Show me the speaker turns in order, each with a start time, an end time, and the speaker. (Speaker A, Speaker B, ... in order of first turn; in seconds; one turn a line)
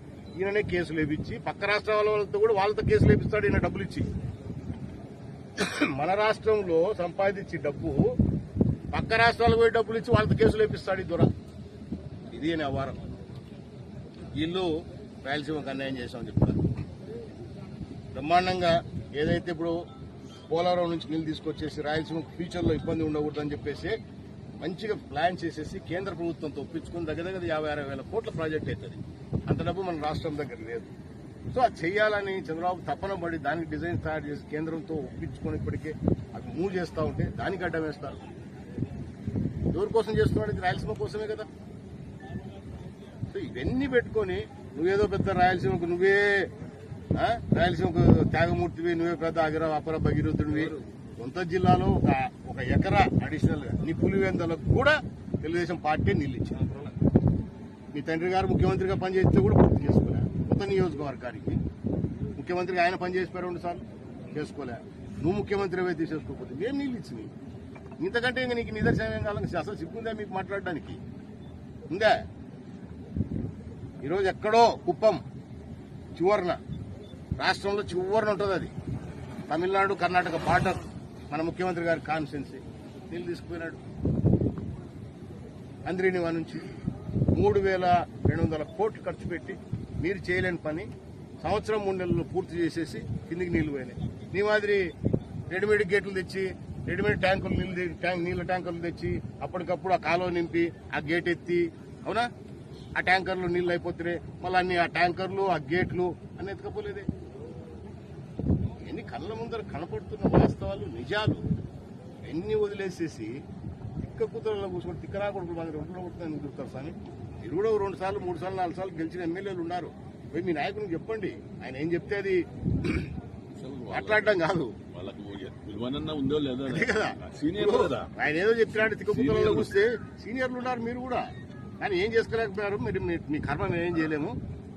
Speaker A: 0.4-4.1
Speaker A: 5.6-8.1
Speaker A: 8.9-11.3
Speaker A: 12.3-13.1
Speaker A: 14.3-14.7
Speaker A: 15.2-16.6
Speaker A: 18.1-19.8
Speaker A: 20.5-24.0
Speaker A: 24.6-30.9
Speaker A: 31.5-38.2
Speaker A: 39.7-41.5
Speaker A: 43.3-46.5
Speaker A: 47.1-56.9
Speaker A: 57.9-61.6
Speaker A: 62.4-67.3
Speaker A: 68.0-71.0
Speaker A: 71.9-72.2
Speaker A: 74.0-75.2
Speaker A: 76.2-76.6
Speaker A: 77.4-78.7
Speaker A: 79.5-83.8
Speaker A: 85.8-86.7
Speaker A: 87.3-90.9
Speaker A: 91.4-94.9
Speaker A: 95.5-102.3
Speaker A: 103.0-107.1
Speaker A: 108.8-111.4
Speaker A: 112.2-113.3
Speaker A: 114.0-123.1
Speaker B: 123.5-124.4
Speaker A: 123.9-124.8
Speaker B: 124.9-128.1
Speaker A: 126.7-131.2
Speaker B: 128.9-129.7
Speaker A: 131.8-134.4